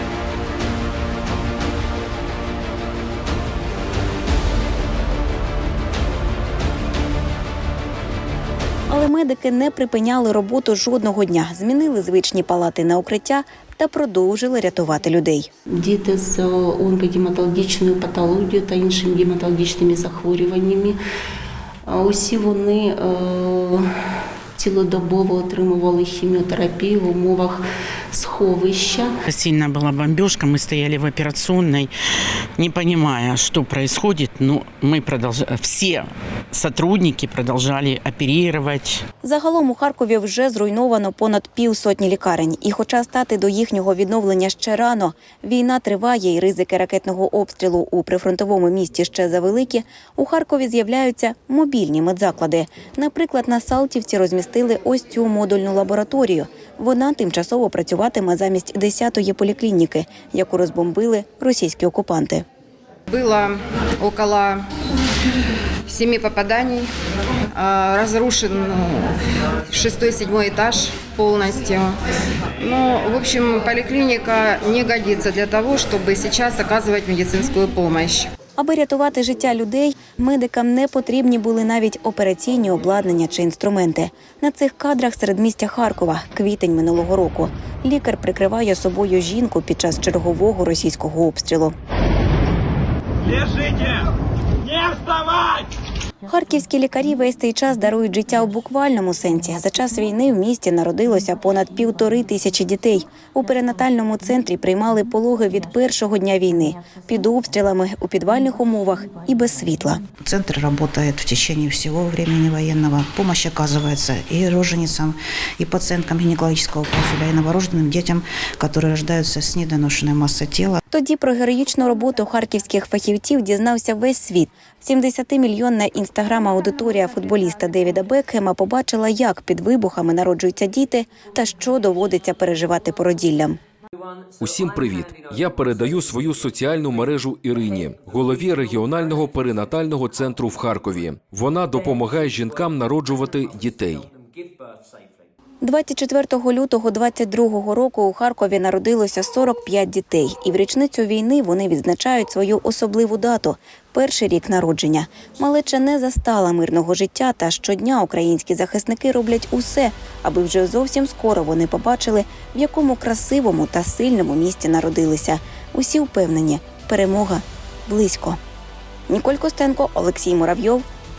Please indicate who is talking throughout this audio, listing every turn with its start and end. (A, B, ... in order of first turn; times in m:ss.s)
0:08.9-0:15.5 A
0:15.8-0:21.0 B
0:21.9-0:23.8 B
0:24.6-0:27.6 B
0:28.1-0:29.1 B
0:29.3-0:31.9 C
0:32.6-0:39.0 C
0:39.2-1:02.4 A
1:03.1-1:04.6 D
1:05.9-1:06.9 D
1:07.5-1:09.1 D
1:09.7-1:12.0 D
1:12.6-1:18.3 D
1:18.6-1:31.7 A
1:36.3-1:50.0 A
1:50.2-2:00.8 E
2:00.9-2:13.6 A
2:14.4-2:24.1 F
2:25.6-2:48.4 A
2:49.1-2:50.8 A